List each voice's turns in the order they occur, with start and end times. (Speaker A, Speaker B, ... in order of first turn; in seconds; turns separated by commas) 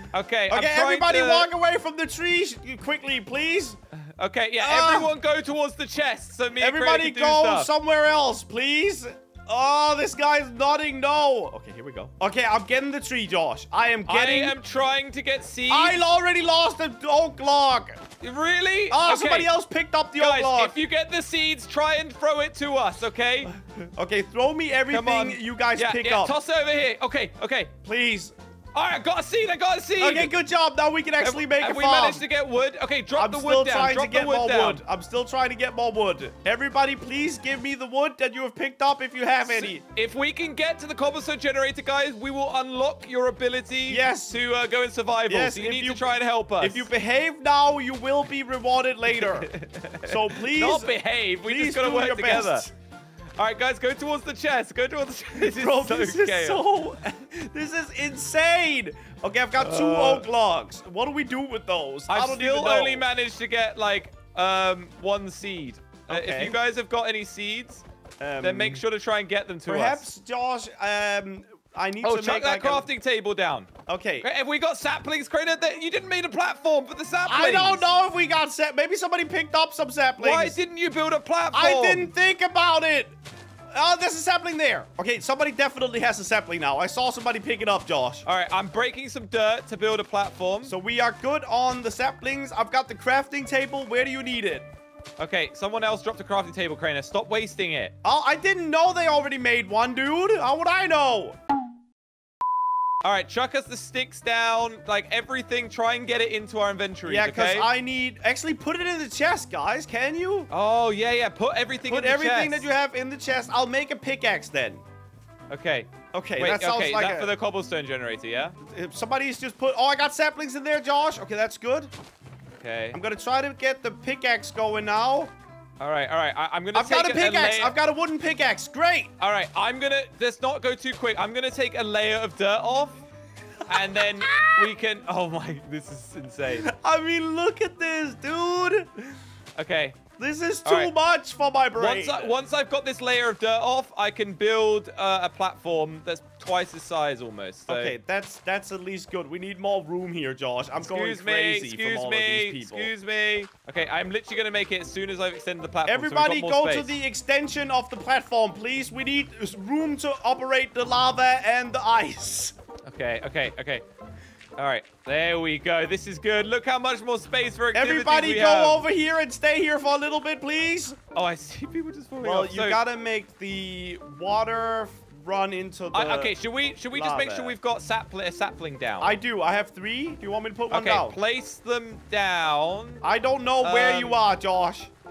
Speaker A: 0.1-1.5, Speaker B: 0.5-3.8, Speaker A: 4.2-7.7, Speaker B: 4.6-5.1, Speaker B: 6.6-14.6, Speaker A: 14.1-16.0, Speaker B: 15.7-18.0, Speaker A: 18.2-19.5, Speaker B: 18.9-20.8, Speaker A: 20.1-23.5, Speaker B: 23.9-26.4, Speaker A: 24.9-27.7, Speaker B: 27.8-28.3, Speaker A: 28.7-30.3, Speaker B: 30.0-32.2, Speaker A: 31.2-34.8, Speaker B: 33.1-39.8, Speaker A: 39.4-46.9, Speaker B: 43.9-44.4, Speaker B: 45.3-49.5, Speaker A: 49.1-52.6, Speaker B: 50.0-52.7, Speaker A: 53.4-56.6, Speaker B: 55.4-63.1, Speaker A: 59.6-60.3, Speaker A: 62.1-67.8, Speaker B: 66.1-66.6, Speaker B: 68.2-68.8, Speaker A: 68.4-70.0, Speaker B: 69.7-72.9, Speaker A: 72.0-73.7, Speaker B: 73.9-74.3, Speaker A: 74.2-77.9, Speaker B: 77.2-80.6, Speaker A: 80.2-82.1, Speaker B: 81.5-83.1, Speaker B: 83.7-88.2, Speaker A: 88.2-90.7, Speaker B: 90.6-94.7, Speaker A: 95.2-97.9, Speaker B: 98.0-101.3, Speaker A: 103.0-107.7, Speaker B: 107.0-110.5, Speaker A: 110.5-112.7, Speaker B: 111.9-114.8, Speaker A: 115.5-118.5, Speaker B: 116.1-117.3, Speaker B: 118.6-121.9, Speaker A: 122.6-123.0, Speaker B: 122.9-125.3, Speaker A: 125.8-127.7, Speaker B: 126.7-129.1, Speaker A: 129.2-133.0, Speaker B: 133.7-134.7, Speaker A: 133.7-136.7, Speaker B: 136.5-139.1, Speaker A: 139.6-140.0, Speaker B: 140.2-142.3, Speaker A: 140.6-140.9, Speaker A: 141.7-147.9, Speaker B: 147.7-152.9, Speaker A: 150.8-156.9, Speaker B: 155.8-162.5, Speaker A: 162.8-163.8, Speaker A: 164.6-168.8, Speaker B: 167.7-171.0, Speaker A: 171.1-172.8, Speaker B: 172.2-176.3, Speaker A: 175.9-179.2, Speaker B: 176.9-177.5, Speaker B: 179.0-181.2, Speaker A: 180.7-183.0, Speaker B: 183.0-184.9, Speaker A: 183.6-184.2